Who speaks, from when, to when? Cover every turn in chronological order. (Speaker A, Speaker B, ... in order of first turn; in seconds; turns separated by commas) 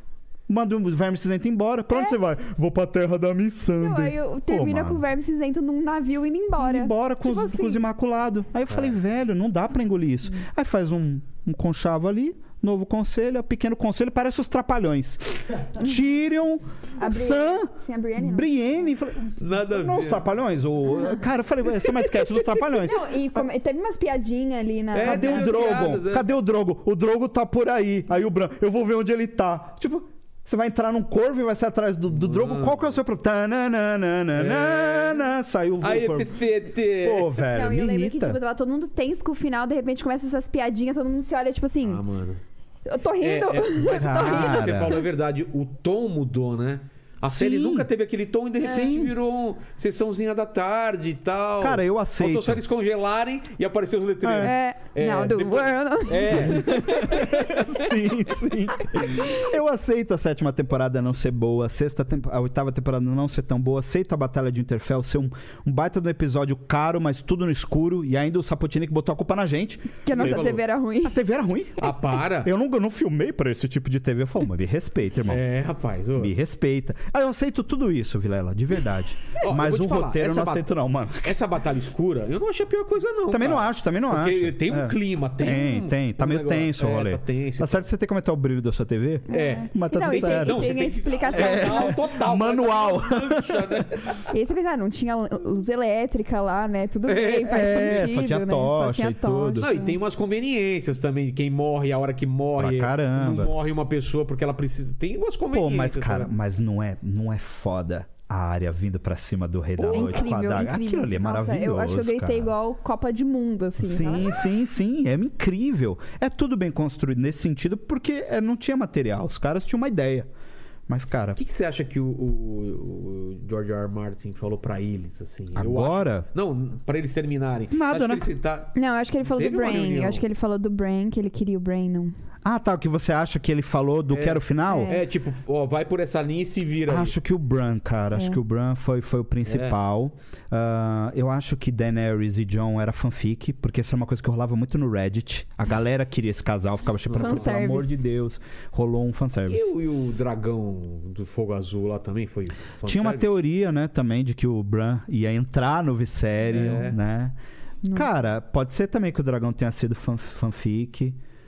Speaker A: 0.5-5.0, Speaker B: 1.9-2.2, Speaker B: 3.8-7.8, Speaker A: 6.6-23.0, Speaker C: 8.7-9.0, Speaker B: 17.0-18.5, Speaker C: 19.4-20.3, Speaker C: 21.7-22.8, Speaker B: 22.8-25.8, Speaker C: 24.9-26.3, Speaker A: 25.0-38.4, Speaker C: 32.1-33.0, Speaker C: 34.3-35.3, Speaker C: 35.8-37.4, Speaker B: 37.4-42.0, Speaker C: 41.8-42.4, Speaker B: 42.9-45.0, Speaker C: 43.2-57.9, Speaker A: 43.9-45.0, Speaker A: 47.2-47.9, Speaker A: 48.6-49.1, Speaker A: 51.6-52.6, Speaker A: 54.2-54.5, Speaker B: 54.4-57.2, Speaker A: 56.4-75.4, Speaker B: 70.0-71.2, Speaker C: 70.1-70.6, Speaker C: 71.8-72.5, Speaker C: 75.3-76.3, Speaker A: 76.2-81.4, Speaker C: 79.4-87.9, Speaker A: 83.3-90.7, Speaker B: 89.3-92.0, Speaker C: 89.3-94.2, Speaker A: 91.3-93.9, Speaker B: 94.3-100.0, Speaker C: 97.1-98.1, Speaker A: 97.5-99.7, Speaker C: 99.6-106.3, Speaker A: 102.6-103.5, Speaker A: 105.5-112.5, Speaker C: 109.8-110.3, Speaker B: 109.9-114.4, Speaker A: 113.8-120.3, Speaker A: 120.9-121.4, Speaker C: 121.3-130.2, Speaker A: 125.6-126.3, Speaker A: 127.7-128.3, Speaker B: 128.8-132.1, Speaker A: 132.4-135.0, Speaker C: 134.1-137.2, Speaker B: 134.7-135.0, Speaker A: 136.9-149.7, Speaker C: 139.5-139.8, Speaker C: 147.1-147.7, Speaker B: 147.2-148.0, Speaker C: 149.5-153.4, Speaker A: 152.8-157.4, Speaker C: 156.5-157.0, Speaker B: 157.8-158.1, Speaker A: 157.9-161.2